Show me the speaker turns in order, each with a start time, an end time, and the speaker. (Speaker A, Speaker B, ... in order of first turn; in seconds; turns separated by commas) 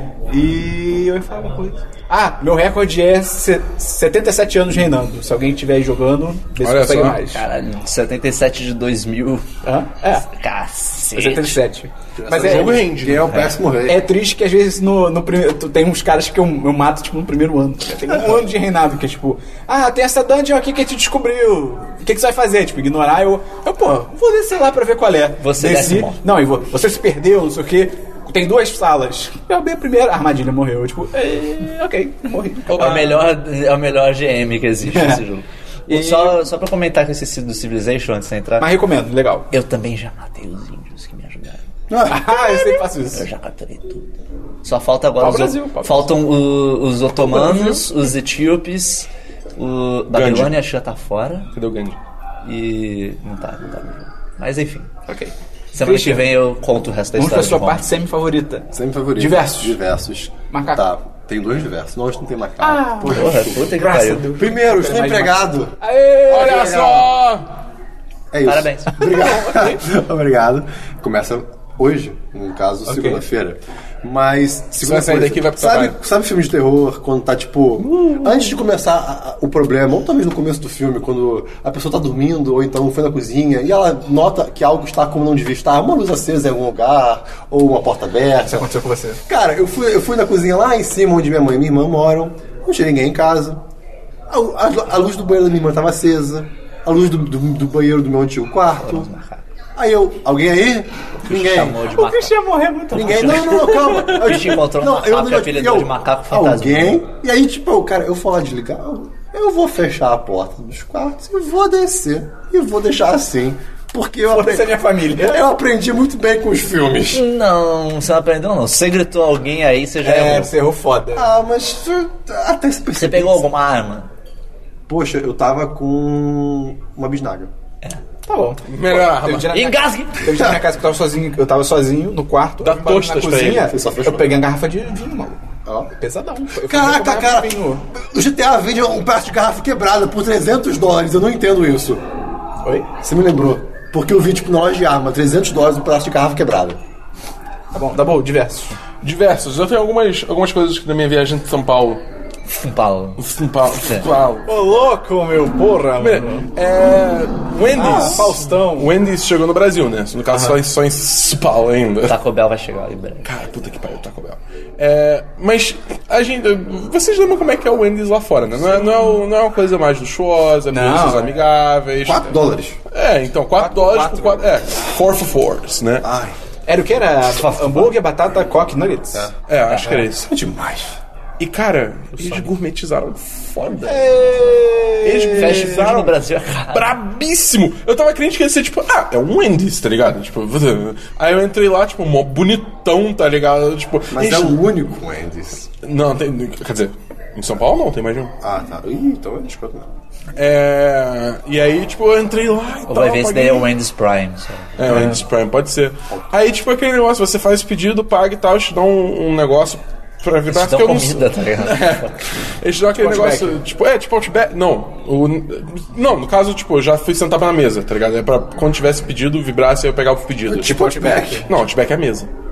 Speaker A: 0.3-7.4, Speaker B: 6.6-7.2, Speaker C: 7.3-9.5, Speaker A: 9.6-10.3, Speaker C: 10.2-11.6, Speaker A: 11.2-12.8, Speaker D: 12.2-14.1, Speaker B: 12.4-13.3, Speaker A: 13.8-33.2, Speaker C: 25.4-26.2, Speaker C: 32.7-38.7, Speaker A: 34.8-35.2, Speaker A: 35.9-36.4, Speaker A: 38.6-39.5, Speaker C: 39.5-41.7, Speaker D: 41.9-42.3, Speaker A: 42.1-43.2, Speaker C: 42.4-44.1, Speaker C: 44.6-51.5, Speaker A: 45.2-46.1, Speaker B: 47.3-47.8, Speaker B: 50.1-50.5, Speaker B: 51.5-52.0, Speaker C: 52.4-54.9, Speaker A: 55.1-56.3, Speaker C: 55.7-57.9, Speaker A: 57.1-59.8, Speaker D: 58.7-63.8, Speaker A: 60.5-60.8, Speaker A: 62.6-66.9, Speaker C: 63.0-64.4, Speaker D: 64.3-65.8, Speaker B: 66.3-67.5, Speaker D: 66.3-67.1, Speaker D: 68.3-88.7, Speaker C: 68.4-69.4, Speaker A: 69.0-69.8, Speaker A: 72.9-73.2, Speaker B: 74.8-76.0, Speaker A: 88.5-89.2, Speaker D: 89.3-93.6, Speaker D: 94.3-99.1, Speaker C: 98.8-99.4, Speaker D: 99.8-101.8, Speaker C: 101.2-102.4, Speaker A: 101.9-103.7, Speaker C: 102.9-107.0, Speaker D: 102.9-117.2, Speaker A: 114.3-115.4, Speaker C: 117.1-120.5, Speaker A: 120.0-121.3, Speaker D: 121.1-123.5, Speaker C: 122.9-124.1, Speaker D: 124.9-127.5, Speaker A: 128.2-137.8, Speaker B: 128.7-129.5, Speaker C: 129.5-130.3, Speaker B: 132.6-133.7, Speaker D: 133.5-134.3, Speaker D: 135.7-135.9, Speaker D: 136.6-142.0, Speaker A: 142.6-142.9, Speaker D: 143.0-146.8, Speaker A: 147.7-148.8, Speaker B: 149.0-152.0, Speaker C: 152.5-153.2, Speaker B: 153.2-154.5, Speaker C: 153.8-154.1, Speaker A: 154.4-156.5, Speaker B: 156.0-162.2, Speaker A: 157.7-158.9, Speaker A: 160.3-160.6, Speaker C: 162.1-163.3, Speaker B: 163.2-176.1, Speaker A: 170.7-171.3, Speaker D: 172.0-172.8, Speaker A: 173.6-174.4, Speaker D: 176.0-176.4, Speaker A: 176.7-180.9, Speaker C: 177.4-177.9, Speaker B: 179.5-180.3, Speaker B: 181.4-184.1, Speaker A: 183.8-185.9, Speaker B: 185.0-186.2, Speaker C: 185.3-186.9, Speaker B: 186.7-194.6, Speaker D: 194.1-195.7, Speaker B: 195.8-198.3, Speaker D: 198.4-199.9, Speaker B: 200.3-203.7, Speaker C: 202.9-205.1, Speaker B: 204.8-222.3, Speaker C: 210.5-212.4, Speaker A: 212.9-213.6, Speaker D: 220.5-221.4, Speaker A: 220.6-221.5